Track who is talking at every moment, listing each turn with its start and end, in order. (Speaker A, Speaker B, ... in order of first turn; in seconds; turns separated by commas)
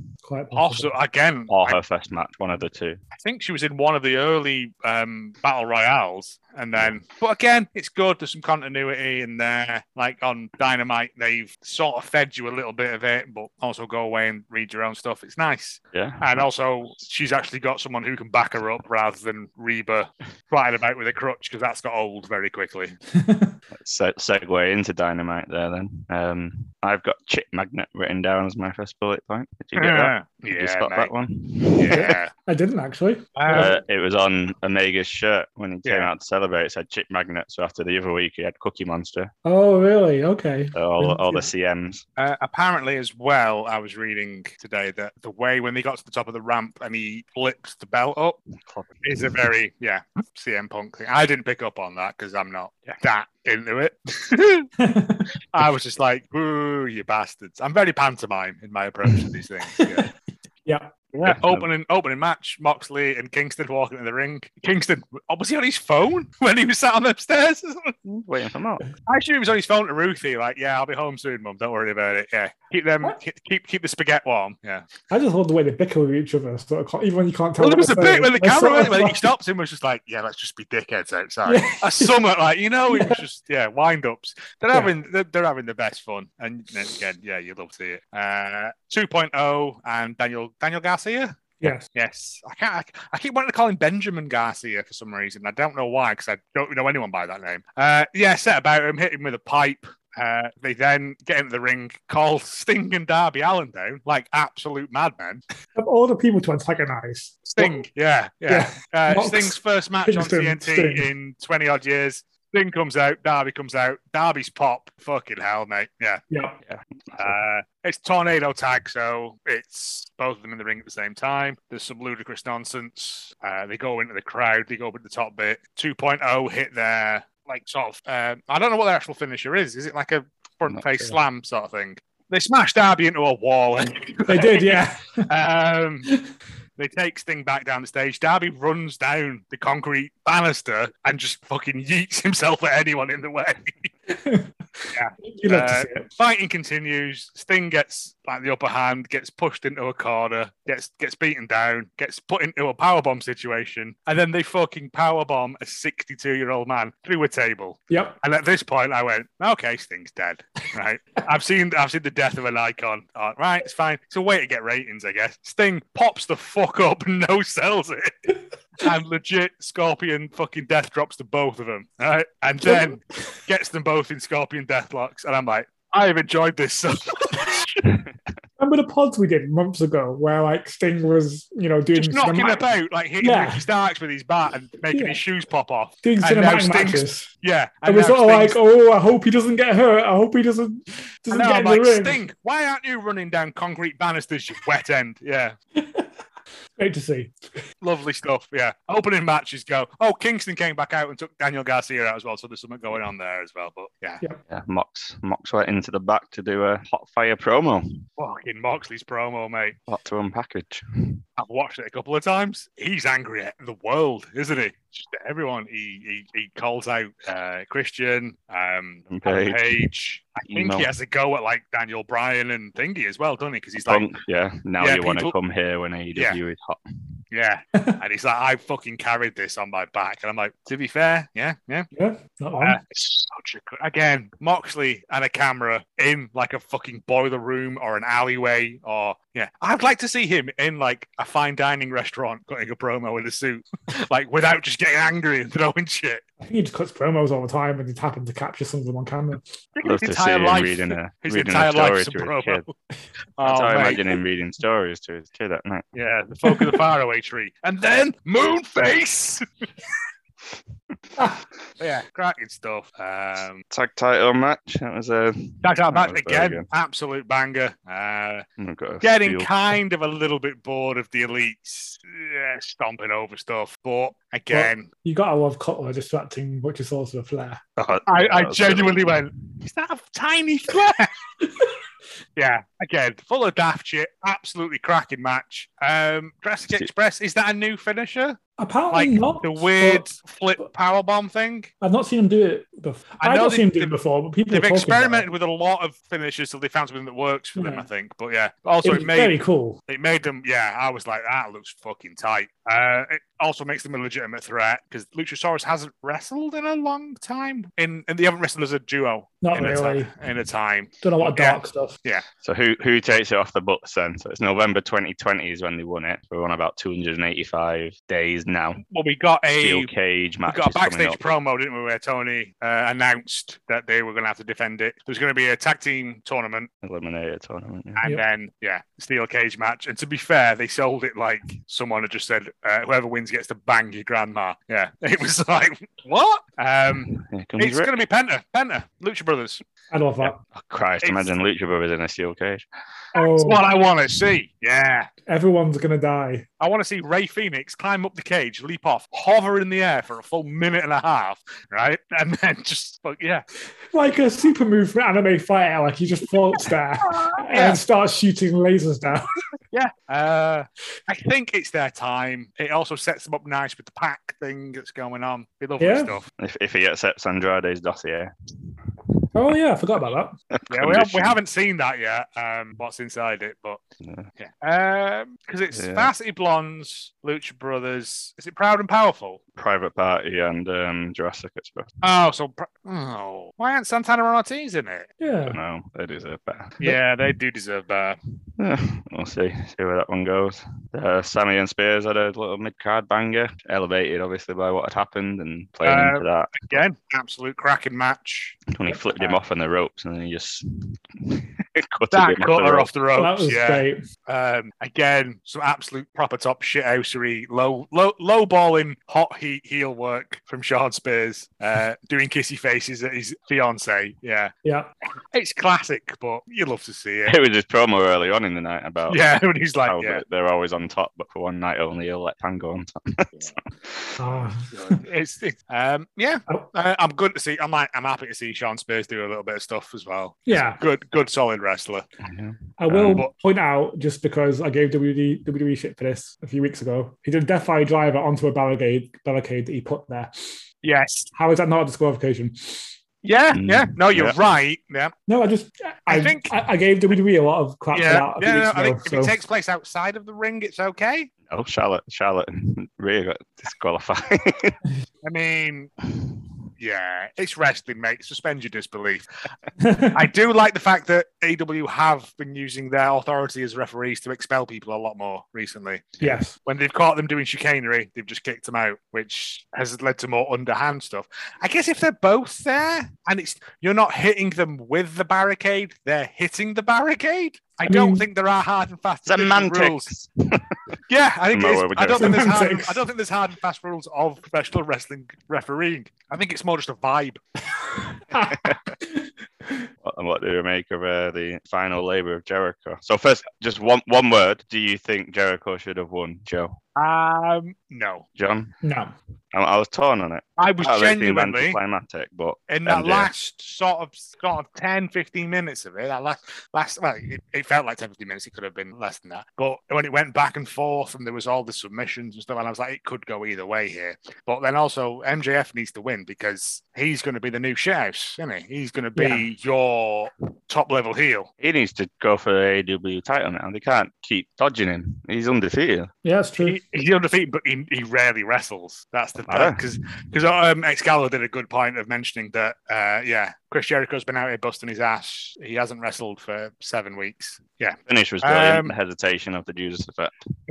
Speaker A: 0.2-0.9, Speaker B: 0.6-1.8, Speaker C: 1.5-3.0, Speaker B: 3.1-23.0, Speaker C: 15.9-16.5, Speaker A: 23.1-23.6, Speaker C: 23.7-32.1, Speaker B: 29.8-31.1, Speaker B: 31.8-32.3, Speaker A: 31.9-33.8, Speaker B: 33.4-33.8, Speaker C: 33.5-39.3, Speaker B: 35.9-36.1, Speaker A: 39.5-41.5, Speaker C: 40.7-42.0, Speaker B: 42.2-48.4, Speaker C: 48.6-49.2, Speaker B: 49.0-54.7, Speaker A: 54.8-55.3, Speaker B: 55.5-60.1, Speaker A: 59.8-60.1, Speaker A: 60.7-60.9, Speaker B: 61.1-68.0, Speaker C: 61.2-61.7, Speaker C: 68.0-68.8, Speaker B: 69.1-74.8, Speaker A: 75.1-79.2, Speaker B: 77.6-105.4, Speaker A: 81.5-82.2, Speaker A: 82.9-83.2, Speaker A: 91.6-91.9, Speaker A: 105.8-107.8, Speaker B: 107.5-116.2, Speaker A: 108.5-111.1, Speaker A: 116.3-116.6, Speaker C: 116.6-117.4, Speaker B: 117.2-136.1, Speaker C: 130.7-131.1, Speaker A: 134.3-135.3, Speaker B: 136.8-143.9, Speaker A: 144.1-146.1, Speaker B: 144.9-168.3, Speaker A: 157.9-158.2, Speaker B: 168.8-177.9, Speaker A: 172.6-172.9, Speaker A: 178.6-182.6, Speaker B: 181.9-188.6, Speaker A: 183.2-183.7, Speaker A: 184.9-185.2, Speaker A: 186.0-187.3, Speaker A: 187.8-192.2, Speaker B: 191.3-195.6, Speaker A: 195.8-196.1, Speaker A: 196.8-197.3, Speaker B: 197.8-204.2, Speaker C: 204.5-208.0, Speaker B: 208.2-209.8, Speaker C: 209.9-211.2, Speaker B: 211.4-224.1, Speaker C: 219.1-219.9, Speaker C: 220.5-220.9, Speaker C: 223.9-226.8, Speaker B: 224.8-225.3, Speaker B: 227.3-231.9, Speaker A: 231.9-232.8, Speaker B: 232.6-246.2, Speaker A: 246.4-249.4, Speaker B: 249.8-252.7, Speaker C: 249.8-252.7, Speaker B: 253.4-254.1, Speaker C: 253.4-255.8, Speaker B: 255.9-259.4, Speaker A: 256.5-256.8, Speaker B: 261.8-263.6, Speaker C: 263.7-266.7, Speaker B: 265.6-268.4, Speaker C: 268.6-269.5, Speaker B: 269.0-274.9, Speaker A: 274.5-277.6, Speaker C: 277.8-279.2, Speaker B: 278.1-281.1, Speaker A: 281.4-281.7, Speaker B: 282.4-288.4, Speaker A: 288.6-290.1, Speaker B: 288.9-291.7, Speaker A: 291.8-295.3, Speaker B: 293.2-294.0, Speaker B: 294.5-312.3, Speaker A: 297.6-297.9, Speaker A: 298.8-299.8, Speaker A: 309.4-310.1, Speaker A: 311.0-312.0, Speaker C: 312.4-318.8, Speaker B: 318.9-319.9, Speaker C: 319.6-321.3, Speaker B: 320.5-326.7, Speaker C: 326.8-328.0, Speaker B: 328.0-339.6, Speaker C: 336.9-337.9, Speaker A: 339.9-340.4, Speaker C: 340.2-342.7, Speaker B: 341.0-341.3, Speaker A: 343.1-343.6, Speaker B: 343.2-345.1, Speaker A: 345.3-346.5, Speaker B: 346.6-353.4, Speaker A: 353.9-359.3, Speaker B: 357.1-357.8, Speaker B: 359.7-366.3, Speaker A: 365.8-366.2, Speaker C: 366.4-368.7, Speaker A: 369.3-370.4, Speaker C: 370.5-371.4, Speaker B: 370.7-373.8, Speaker C: 374.0-374.3, Speaker B: 374.4-379.4, Speaker C: 375.7-376.1, Speaker C: 379.6-381.9, Speaker B: 382.0-385.1, Speaker A: 385.2-385.6, Speaker C: 385.5-386.8, Speaker B: 386.8-388.2, Speaker C: 388.6-396.8, Speaker B: 395.9-398.6, Speaker C: 398.7-402.9, Speaker B: 402.1-414.5, Speaker A: 403.2-404.0, Speaker A: 414.6-414.9, Speaker B: 415.3-417.4, Speaker C: 417.3-419.2, Speaker B: 419.1-420.2, Speaker C: 419.9-424.1, Speaker A: 424.2-425.0, Speaker B: 424.7-432.1, Speaker A: 430.5-430.8, Speaker C: 432.2-433.2, Speaker A: 432.8-440.6, Speaker B: 440.8-441.3, Speaker A: 441.4-443.0, Speaker B: 443.2-445.1, Speaker C: 443.5-444.4, Speaker A: 445.3-449.3, Speaker B: 446.1-446.5, Speaker B: 447.9-451.3, Speaker C: 451.5-454.8, Speaker B: 455.2-455.9, Speaker B: 456.8-459.2, Speaker A: 459.8-460.2, Speaker B: 460.1-480.1, Speaker A: 466.2-466.5, Speaker A: 477.9-478.2, Speaker C: 479.3-481.0, Speaker B: 481.1-487.4, Speaker C: 481.5-482.6, Speaker A: 482.2-483.0, Speaker A: 488.0-489.8, Speaker C: 488.4-488.8, Speaker C: 490.0-496.8, Speaker B: 497.0-498.3, Speaker C: 498.4-498.7, Speaker A: 498.8-499.1, Speaker C: 499.5-503.3, Speaker B: 500.6-501.8, Speaker B: 502.7-521.5, Speaker A: 519.2-519.4, Speaker C: 521.6-526.1, Speaker A: 526.2-526.8, Speaker B: 526.6-538.9, Speaker C: 529.5-529.8, Speaker C: 538.1-540.4